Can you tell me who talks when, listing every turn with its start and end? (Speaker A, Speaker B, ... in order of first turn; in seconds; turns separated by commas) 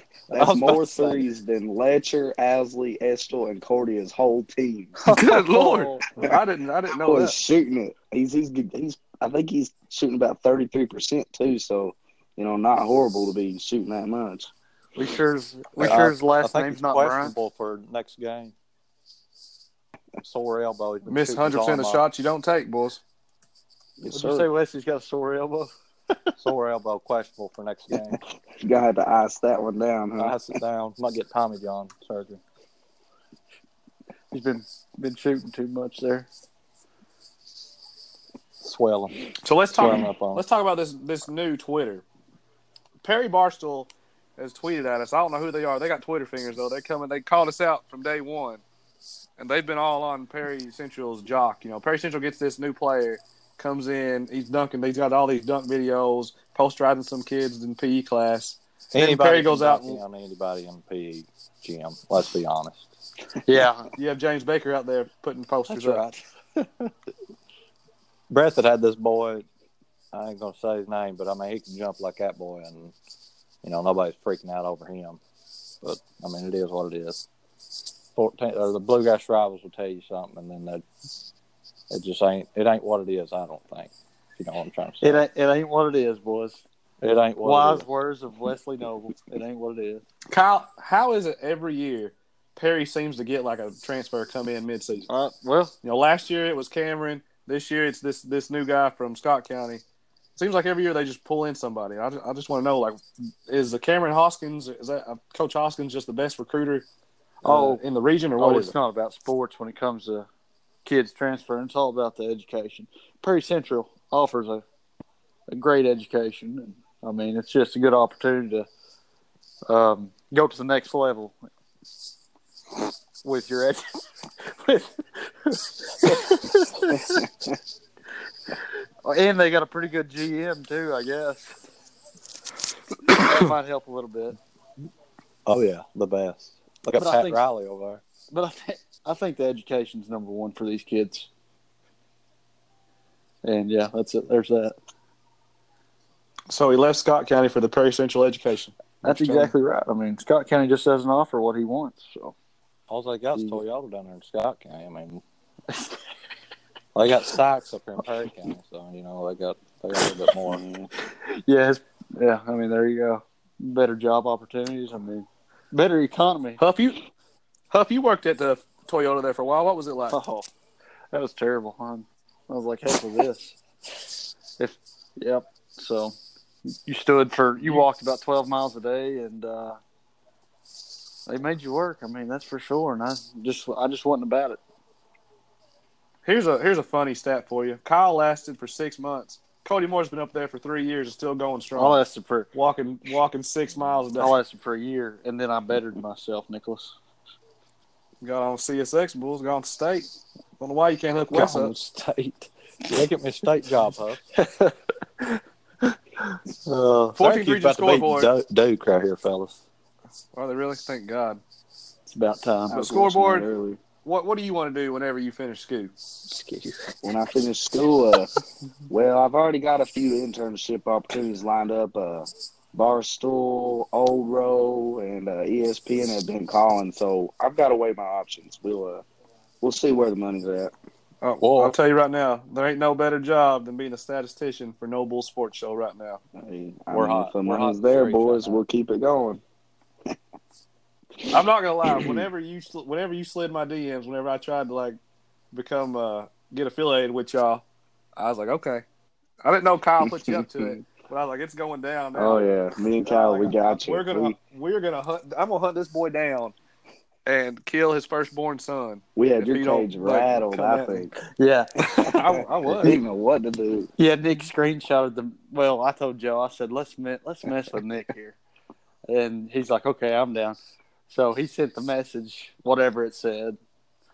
Speaker A: 0.3-5.0, Speaker B: 0.3-1.2, Speaker C: 5.1-7.3, Speaker B: 5.5-6.0, Speaker A: 7.0-14.5, Speaker D: 15.0-17.4, Speaker B: 15.8-18.5, Speaker B: 20.2-22.0, Speaker C: 21.1-23.0, Speaker A: 24.0-24.5, Speaker D: 24.1-26.3, Speaker B: 26.4-28.2, Speaker A: 28.6-30.4, Speaker B: 30.2-32.4, Speaker D: 34.3-36.3, Speaker B: 38.6-39.1, Speaker C: 39.4-42.0, Speaker B: 39.7-40.4, Speaker C: 43.0-48.6, Speaker C: 49.4-60.0, Speaker B: 58.9-62.9, Speaker D: 63.5-63.9, Speaker C: 64.0-66.0, Speaker D: 65.7-66.9, Speaker B: 68.3-69.5, Speaker B: 70.1-73.0, Speaker B: 73.6-75.2, Speaker B: 75.8-77.3, Speaker B: 78.2-80.8, Speaker B: 81.9-85.3, Speaker D: 85.0-86.6, Speaker B: 87.0-87.9, Speaker D: 87.4-90.0, Speaker C: 90.3-95.1, Speaker D: 95.1-95.8, Speaker C: 95.8-99.8, Speaker C: 100.4-106.8, Speaker D: 107.4-107.8, Speaker C: 107.4-108.7, Speaker D: 108.4-110.3, Speaker D: 110.8-114.6, Speaker D: 115.5-118.7, Speaker D: 119.7-121.4, Speaker D: 123.2-127.2, Speaker D: 128.5-131.5, Speaker D: 133.1-134.4, Speaker C: 133.1-133.4, Speaker B: 135.5-138.0, Speaker D: 137.0-137.4, Speaker D: 138.3-141.3, Speaker D: 143.4-144.8, Speaker C: 146.5-149.5, Speaker D: 149.0-152.3, Speaker B: 152.9-155.2, Speaker D: 155.7-156.0, Speaker B: 156.9-160.6, Speaker A: 160.5-160.9, Speaker D: 161.0-166.6, Speaker C: 166.6-167.0, Speaker C: 167.7-170.2, Speaker D: 170.1-170.5, Speaker D: 171.1-176.2, Speaker D: 176.9-179.8, Speaker C: 177.6-177.8, Speaker D: 181.3-184.6, Speaker C: 186.2-192.0, Speaker D: 191.8-192.5, Speaker C: 192.5-194.4, Speaker D: 194.2-196.9, Speaker C: 198.2-200.1, Speaker C: 200.6-201.7, Speaker B: 201.3-204.2, Speaker D: 204.4-205.4, Speaker B: 206.7-209.6, Speaker C: 207.2-208.3, Speaker C: 210.3-211.4, Speaker D: 212.1-212.8, Speaker C: 212.7-213.5, Speaker A: 212.7-213.8, Speaker C: 214.0-215.9, Speaker D: 216.2-216.9, Speaker A: 217.0-218.3, Speaker A: 218.9-229.0, Speaker A: 229.6-230.7, Speaker C: 231.2-236.2, Speaker B: 231.4-231.8, Speaker A: 236.4-239.4, Speaker B: 236.9-238.6, Speaker C: 241.3-245.0, Speaker A: 241.9-242.2, Speaker C: 245.5-247.6, Speaker C: 248.2-248.8, Speaker C: 249.4-256.6, Speaker A: 250.1-250.8, Speaker A: 252.2-254.3, Speaker C: 257.3-261.1, Speaker A: 259.2-261.1, Speaker D: 261.3-261.7, Speaker C: 261.8-263.0, Speaker A: 262.2-263.9, Speaker D: 264.0-268.4, Speaker D: 269.1-270.6, Speaker D: 271.1-273.6